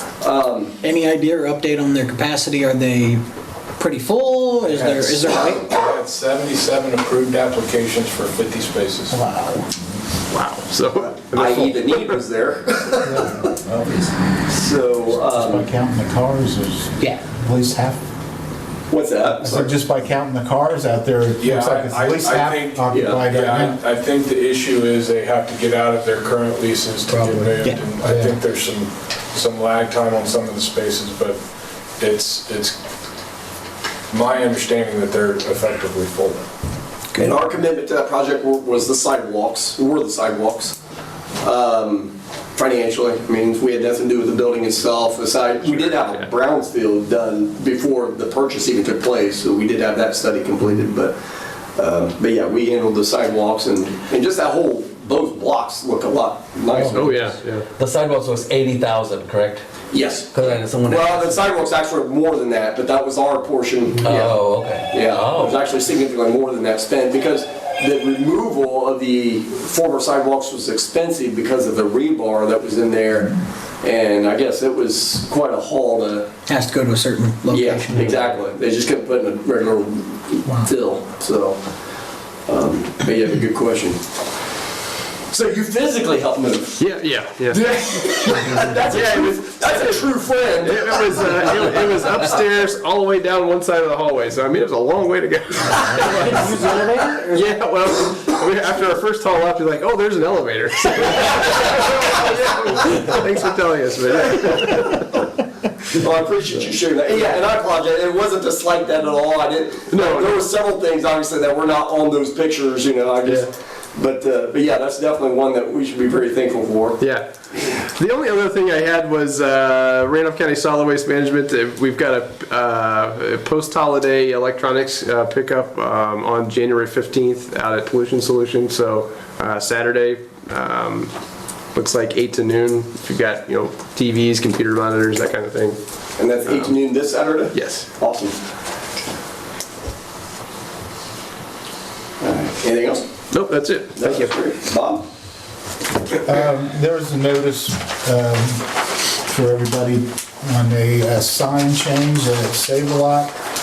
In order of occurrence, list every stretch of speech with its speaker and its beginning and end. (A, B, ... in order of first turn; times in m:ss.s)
0:00.2-0:00.8 A
0:00.8-0:03.2 B
0:03.8-0:05.7 B
0:04.6-0:09.2 C
0:09.1-0:09.7 B
0:10.3-0:12.2 D
0:11.0-0:13.5 A
0:13.0-0:13.6 E
0:14.5-0:15.7 A
0:15.1-0:18.0 E
0:18.9-0:19.7 A
0:19.4-0:23.8 E
0:21.4-0:31.4 C
0:22.9-0:23.2 A
0:27.1-0:28.4 E
0:32.0-0:32.8 C
0:34.1-0:36.4 C
0:37.2-0:40.8 A
0:41.4-0:51.1 A
0:45.6-0:46.3 D
0:51.7-0:57.3 A
0:56.7-0:57.0 E
0:56.9-0:57.6 D
0:57.7-0:59.6 F
0:59.9-1:16.3 A
1:00.3-1:01.5 F
1:04.0-1:05.6 F
1:16.5-1:18.1 B
1:17.5-1:21.6 A
1:17.9-1:18.2 D
1:22.4-1:24.0 A
1:25.3-1:26.8 A
1:26.8-1:45.2 D
1:27.5-1:31.9 A
1:35.9-1:37.4 E
1:36.3-1:37.2 B
1:45.8-1:57.0 A
1:49.9-1:50.4 D
1:53.2-1:53.5 D
1:57.0-2:11.1 D
2:11.7-2:15.8 D
2:16.2-2:18.3 A
2:17.5-2:17.9 D
2:22.2-2:23.0 A
2:23.3-2:24.3 D
2:24.0-2:25.0 A
2:26.2-2:33.4 E